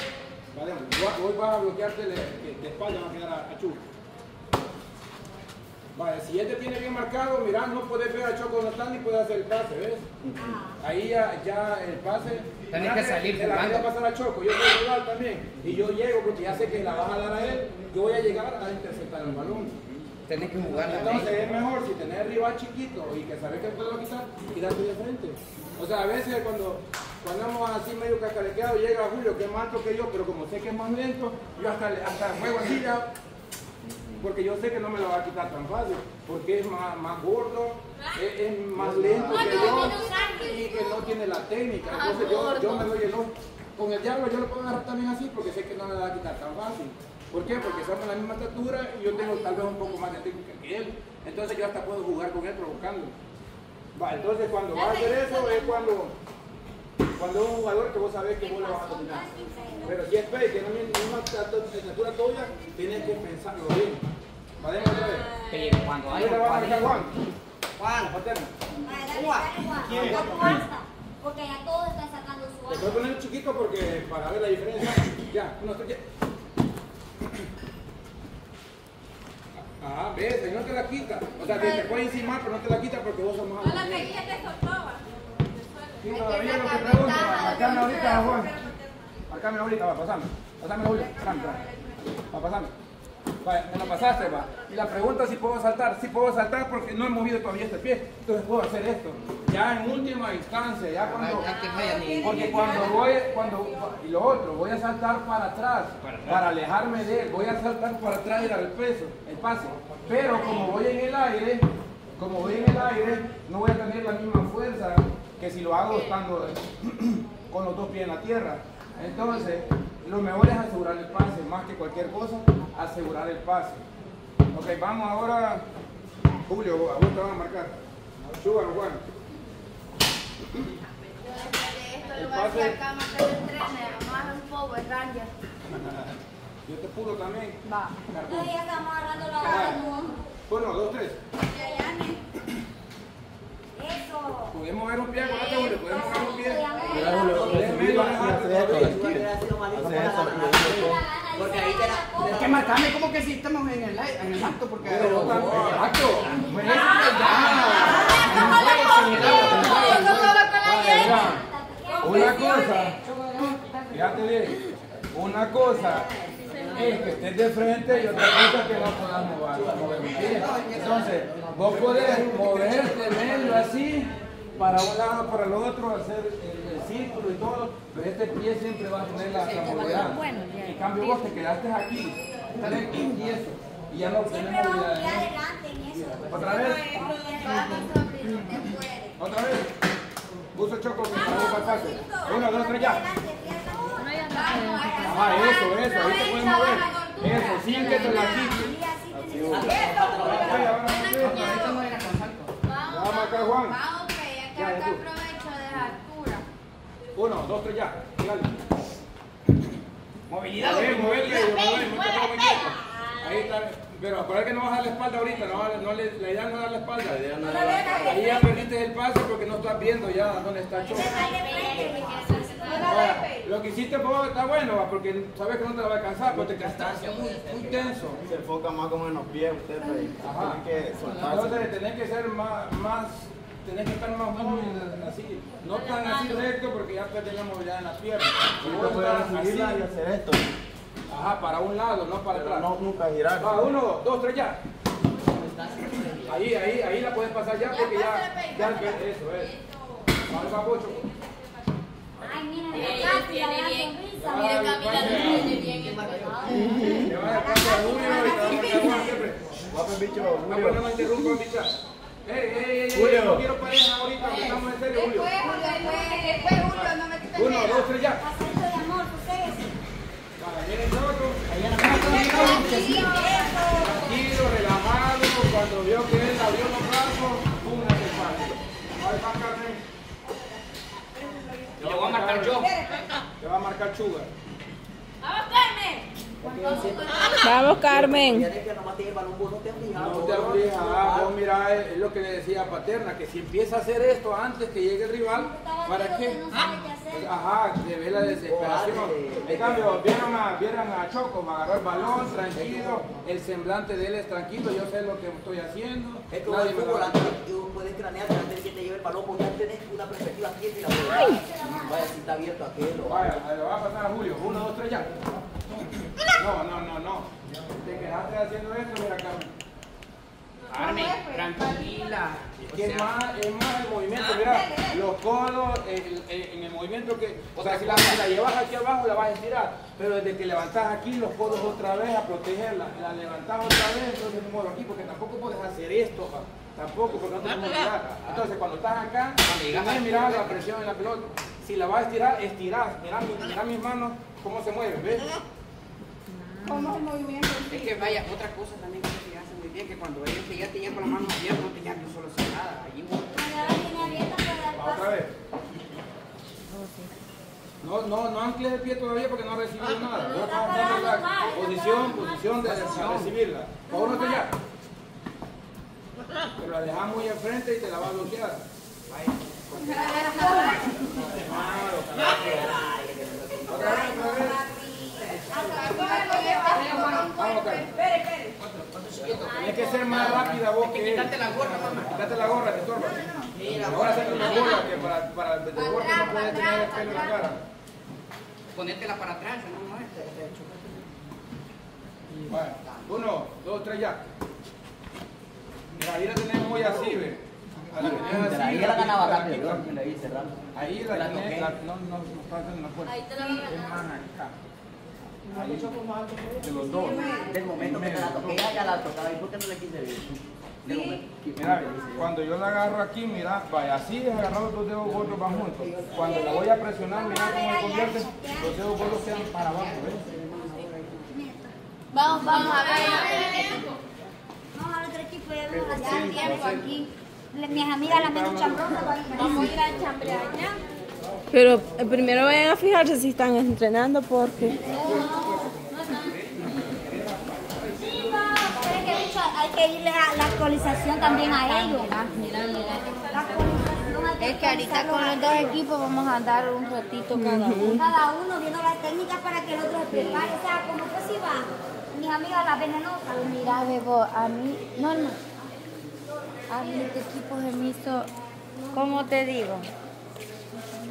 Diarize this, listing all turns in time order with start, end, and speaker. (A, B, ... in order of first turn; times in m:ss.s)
0:00.5-0:03.8 A
0:06.0-0:10.1 A
0:10.4-0:10.6 B
0:10.8-0:19.8 A
0:12.7-0:13.9 C
0:20.3-0:21.4 C
0:20.8-0:33.1 A
0:34.2-0:53.2 A
0:38.7-0:39.6 D
0:39.4-0:40.4 B
0:39.6-0:40.2 E
0:41.9-0:42.9 E
0:54.0-0:56.1 A
0:57.2-0:59.3 A
0:58.4-1:00.0 B
0:59.8-1:04.0 A
1:04.6-1:05.3 A
1:05.5-1:07.1 C
1:06.1-1:07.1 A
1:07.8-1:08.5 A
1:08.8-1:13.0 B
1:09.1-1:09.6 C
1:09.8-1:10.6 A
1:12.7-1:16.0 A
1:19.6-1:24.1 A
1:21.4-1:21.9 E
1:23.6-1:25.0 E
1:25.6-1:28.7 E
1:26.0-1:28.5 A
1:29.3-1:31.6 A
1:31.3-1:31.7 E
1:32.3-1:32.7 A
1:33.4-1:41.5 A
1:34.0-1:34.6 E
1:41.1-1:42.8 C
1:41.4-1:43.6 E
1:42.2-2:03.8 A
1:46.0-1:46.4 C
2:04.5-2:05.6 A
2:06.4-2:07.7 A
2:08.4-2:09.0 A
2:11.2-2:14.5 E
2:12.1-2:12.8 A
2:15.7-2:16.1 A
2:16.6-2:18.5 A
2:18.3-2:20.2 B
2:19.4-2:19.8 A
2:20.5-2:21.2 A
2:21.6-2:22.2 E
2:21.6-2:22.0 B
2:23.8-2:24.5 B
2:24.5-2:26.6 A
2:25.2-2:27.2 E
2:25.8-2:27.6 B
2:26.9-2:31.0 D
2:27.2-2:29.0 A
2:27.4-2:33.0 F
2:30.8-2:32.3 B
2:32.2-2:40.3 C
2:34.8-2:41.4 A
2:36.6-2:37.2 B
2:37.9-2:42.5 B
2:42.0-2:43.0 A
2:43.9-2:44.6 A
2:45.1-2:46.1 A
2:46.6-2:46.8 E
2:46.7-3:05.3 A
2:49.6-2:52.7 F
2:59.3-3:00.2 C
3:00.0-3:01.0 G
3:04.1-3:07.9 B
3:05.9-3:06.9 A
3:06.4-3:09.2 E
3:09.2-3:09.7 A
3:10.5-3:13.0 A
3:11.1-3:15.6 B
3:14.3-3:18.5 E
3:15.0-3:18.7 A
3:17.6-3:20.1 B
3:19.1-3:19.9 D
3:19.4-3:20.8 F
3:19.7-3:21.8 E
3:20.2-3:21.7 A
3:20.2-3:20.5 C
3:21.1-3:22.5 C
3:22.6-3:26.4 E
3:22.9-3:23.8 A
3:24.5-3:25.0 A
3:27.1-3:28.5 A
3:30.3-3:31.5 C
3:30.6-3:37.2 A
3:31.5-3:32.9 B
3:37.0-3:38.3 D
3:37.8-3:38.2 E
3:38.0-3:41.3 A
3:41.0-3:43.0 B
3:42.6-3:43.3 E
3:42.8-3:48.2 A
3:46.4-3:47.9 C
3:48.2-3:51.7 D
3:50.2-3:59.8 A
3:55.8-3:56.4 E
3:58.6-4:00.5 D
4:01.1-4:02.7 A
4:02.3-4:03.7 D
4:03.4-4:04.6 A
4:05.3-4:06.4 F
4:06.2-4:09.5 A
4:07.7-4:10.0 E
4:10.2-4:11.1 A
4:12.2-4:15.1 B
4:12.7-4:16.1 E
4:14.2-4:15.6 A
4:15.3-4:17.1 F
4:16.3-4:19.1 B
4:16.9-4:19.4 A
4:18.4-4:18.9 E
4:19.7-4:21.3 D
4:20.5-4:21.7 A
4:22.2-4:25.3 A
4:22.9-4:23.5 D
4:24.9-4:27.9 E
4:25.4-4:26.7 B
4:27.3-4:28.2 A
4:28.2-4:29.7 B
4:30.4-4:33.0 A
4:31.5-4:33.3 C
4:32.4-4:33.9 B
4:32.5-4:33.4 E
4:33.7-4:39.8 A
4:41.8-4:42.7 A
4:41.8-4:42.8 C
4:43.4-4:44.3 A
4:45.2-4:47.7 E
4:46.4-4:51.3 F
4:47.3-4:48.5 H
4:49.9-4:56.4 A
4:55.4-4:57.3 B
4:57.1-5:07.4 A
4:58.4-5:00.0 F
5:02.4-5:03.1 F
5:06.3-5:13.4 F
5:11.1-5:12.1 B
5:13.1-5:15.1 A
5:16.2-5:17.3 A
5:17.8-5:19.5 A
5:20.7-5:23.1 C
5:20.7-5:21.9 E
5:22.7-5:45.3 A
5:27.5-5:28.2 C
5:37.4-5:37.7 C
5:39.4-5:40.6 C
5:46.7-5:47.8 E
5:47.7-5:54.2 C
5:53.3-5:55.1 B
5:53.8-5:55.3 A
5:57.8-6:04.5 A
6:00.1-6:02.5 B
6:02.6-6:03.3 C
6:06.6-6:08.6 A
6:09.8-6:10.9 E
6:11.2-6:12.8 A
6:12.4-6:13.7 F
6:13.6-6:14.7 A
6:15.5-6:18.4 E
6:15.7-6:17.2 B
6:15.9-6:17.2 C
6:17.2-6:17.9 A
6:18.9-6:22.7 C
6:19.5-6:21.4 A
6:19.7-6:20.2 E
6:22.0-6:27.6 A
6:23.5-6:25.1 C
6:28.7-6:30.3 C
6:32.5-6:34.2 A
6:36.0-6:39.8 A
6:38.0-6:40.5 F
6:40.7-6:44.5 A
6:41.0-6:41.7 F
6:43.1-6:43.9 E
6:45.5-6:45.9 A
6:45.5-6:46.7 F
6:46.6-6:48.7 A
6:47.2-6:52.3 F
6:51.6-7:00.3 A
6:55.0-6:56.4 F
6:56.3-6:58.8 B
7:00.3-7:01.3 F
7:01.3-7:01.7 B
7:02.1-7:04.0 E
7:02.6-7:02.8 G
7:02.8-7:03.8 B
7:04.7-7:09.8 B
7:05.7-7:06.9 A
7:06.0-7:06.8 E
7:07.7-7:10.4 A
7:09.3-7:10.8 E
7:11.5-7:14.8 H
7:14.8-7:17.4 A
7:14.9-7:15.2 E
7:15.0-7:15.7 B
7:17.9-7:25.3 B
7:21.5-7:23.8 E
7:24.4-7:25.7 E
7:24.4-7:27.9 G
7:27.4-7:28.0 H
7:27.8-7:33.5 B
7:30.2-7:30.5 G
7:33.4-7:35.4 G
7:36.7-7:38.3 G
7:38.9-7:39.9 G